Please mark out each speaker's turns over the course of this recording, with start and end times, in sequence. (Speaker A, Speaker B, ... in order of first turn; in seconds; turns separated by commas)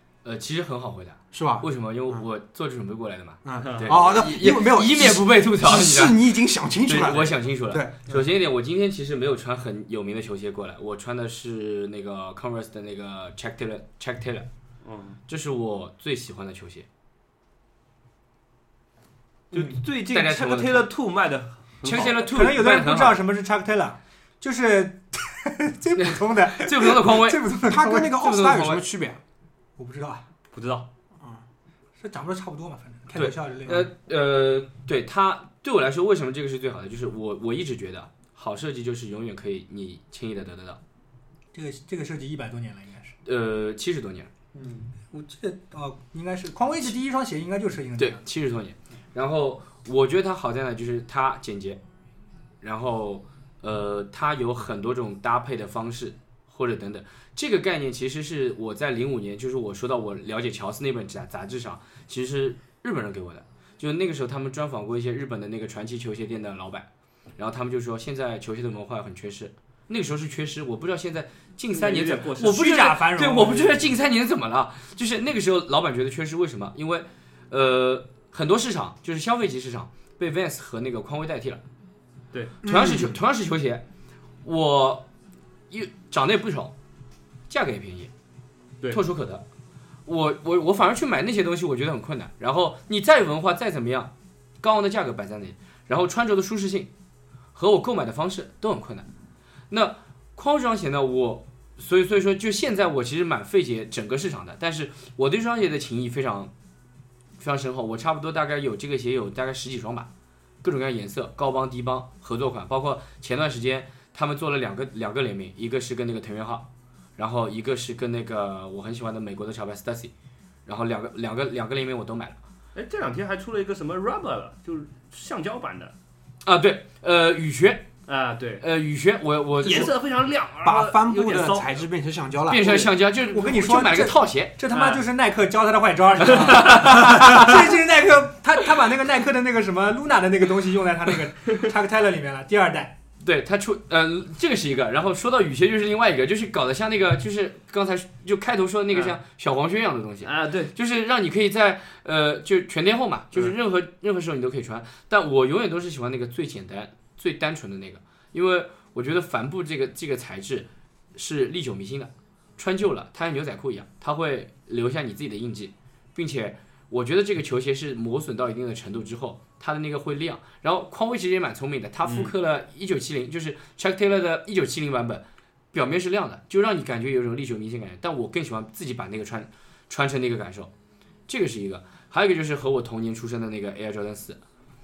Speaker A: 0.2-6.2, Speaker B: 1.3-2.2, Speaker B: 3.4-8.2, Speaker C: 3.6-4.0, Speaker A: 6.8-14.5, Speaker C: 14.8-15.2, Speaker A: 15.3-16.9, Speaker C: 19.5-22.1, Speaker A: 20.1-20.9, Speaker A: 21.8-23.2, Speaker D: 21.9-28.2, Speaker A: 26.0-27.4, Speaker B: 27.5-29.2, Speaker A: 28.2-28.8, Speaker D: 29.8-30.2, Speaker C: 30.5-30.9, Speaker D: 32.0-33.9, Speaker A: 33.1-40.8, Speaker D: 41.5-43.1, Speaker A: 43.2-44.3, Speaker B: 44.5-44.9, Speaker D: 45.1-48.2, Speaker A: 48.0-51.8, Speaker A: 52.6-81.6, Speaker C: 71.7-72.9, Speaker D: 72.5-73.9, Speaker C: 82.3-82.6, Speaker B: 82.6-83.2, Speaker A: 82.6-83.8, Speaker A: 84.4-85.1, Speaker A: 85.7-86.7, Speaker A: 87.5-88.1, Speaker A: 88.9-89.4, Speaker A: 90.0-96.9, Speaker A: 97.5-99.1, Speaker A: 99.7-106.5, Speaker A: 107.4-110.1, Speaker A: 110.6-116.7, Speaker A: 117.2-120.1, Speaker A: 120.7-122.4, Speaker C: 122.7-125.9, Speaker A: 126.4-127.9, Speaker C: 128.1-128.6, Speaker A: 128.6-129.9, Speaker C: 129.6-131.8, Speaker B: 130.6-132.8, Speaker A: 132.5-134.6, Speaker D: 133.3-142.9, Speaker C: 134.7-135.0, Speaker C: 136.3-137.4, Speaker A: 136.3-137.2, Speaker A: 143.2-180.7, Speaker C: 150.2-150.7, Speaker C: 172.0-172.3, Speaker A: 181.3-184.4